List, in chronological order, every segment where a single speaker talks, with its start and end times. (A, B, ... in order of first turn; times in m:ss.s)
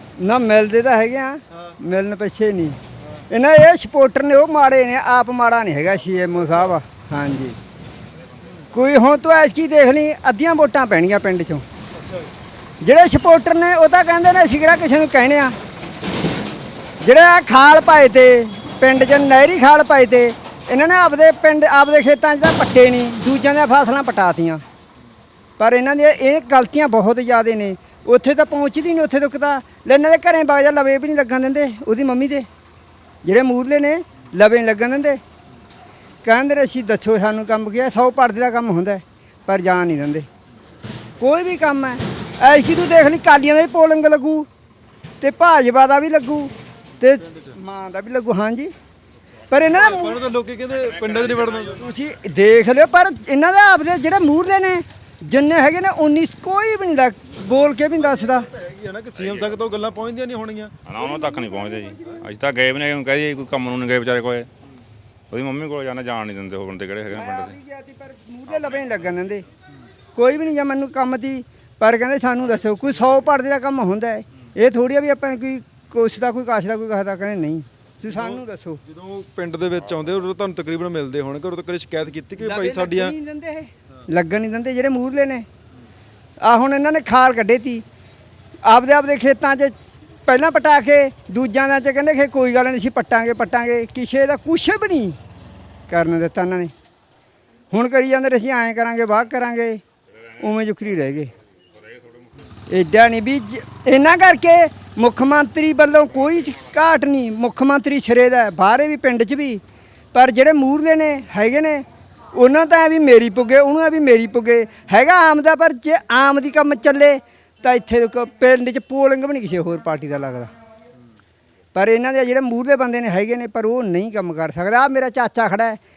0:00.2-0:02.8 A
0:01.5-0:01.8 B
0:03.0-0:03.2 B
0:03.3-0:07.6 A
0:06.3-0:06.7 B
0:08.7-0:11.6 A
0:11.9-0:12.3 B
0:12.8-0:15.6 A
0:17.0-0:24.6 A
0:25.6-0:32.5 A
0:33.2-0:35.2 A
0:36.2-0:40.3 A
0:41.2-0:44.5 A
0:45.2-0:48.7 A
0:47.0-0:47.6 B
0:49.5-0:50.3 A
0:49.6-0:51.9 B
0:50.8-0:51.6 C
0:51.8-0:58.5 A
0:57.9-1:00.8 B
0:59.2-0:59.6 C
1:00.9-1:04.5 C
1:01.0-1:02.2 A
1:05.3-1:07.6 C
1:07.1-1:09.4 A
1:08.5-1:09.0 C
1:10.2-1:18.8 A
1:12.4-1:13.3 B
1:18.1-1:23.1 B
1:19.8-1:20.3 C
1:22.4-1:25.5 A
1:26.4-1:27.8 A
1:28.6-1:29.8 A
1:30.3-1:35.2 A
1:35.9-1:36.7 A
1:37.7-1:39.8 A
1:40.4-1:41.3 A
1:42.7-1:49.6 A
1:50.1-2:00.5 A
2:01.8-2:05.8 A